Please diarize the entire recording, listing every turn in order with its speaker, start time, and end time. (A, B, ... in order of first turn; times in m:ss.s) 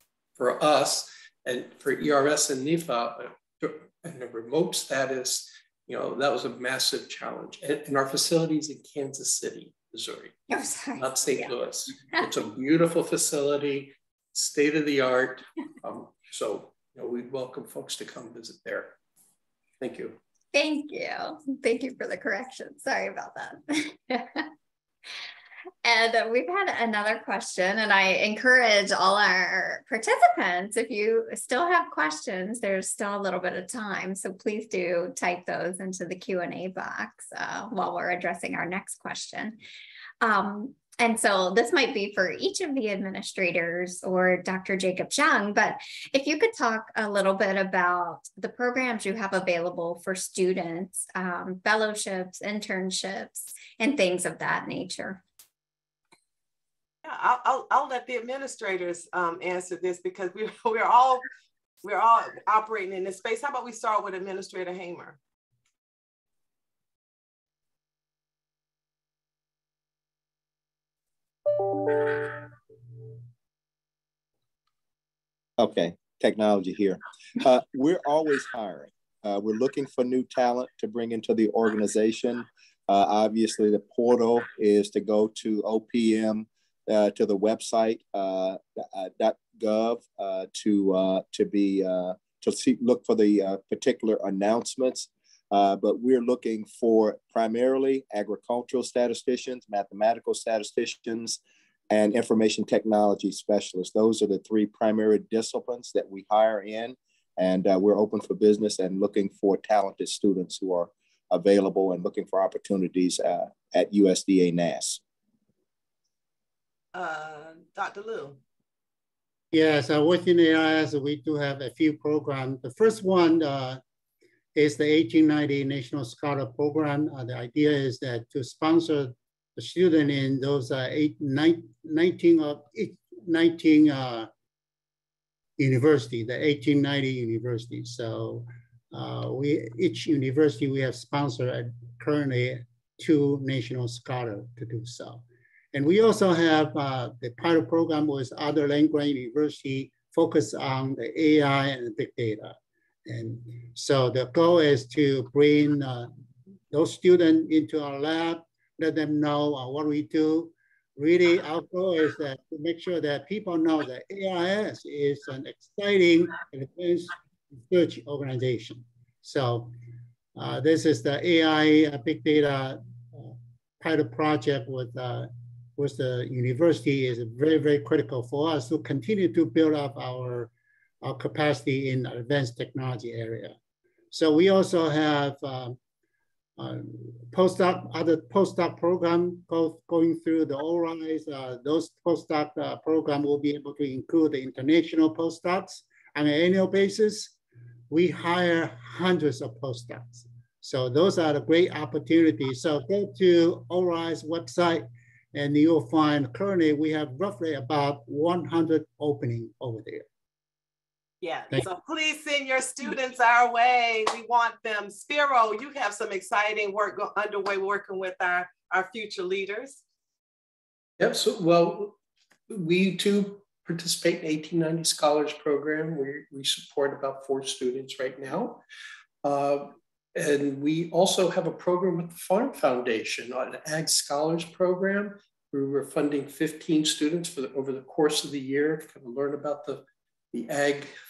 0:00.4-0:10.4 A
0:10.5-0:11.5 B
0:11.0-0:19.0 A
0:19.8-0:20.2 A
0:20.5-0:24.5 B
0:25.8-0:39.6 B
0:40.2-0:55.2 B
0:57.0-1:01.2 C
1:01.8-1:05.2 C
1:15.6-1:41.4 D
1:41.9-1:55.0 D
1:56.9-1:58.4 C
1:59.5-2:03.8 E
2:04.5-2:14.3 E
2:15.6-2:36.1 E
2:36.7-2:49.7 E
2:50.4-3:03.6 E
3:04.1-3:05.8 E
3:06.6-3:17.3 E
3:17.9-3:30.0 E
3:31.2-3:39.8 C
3:41.0-3:42.0 A
3:42.5-3:48.6 A
3:49.2-4:00.9 A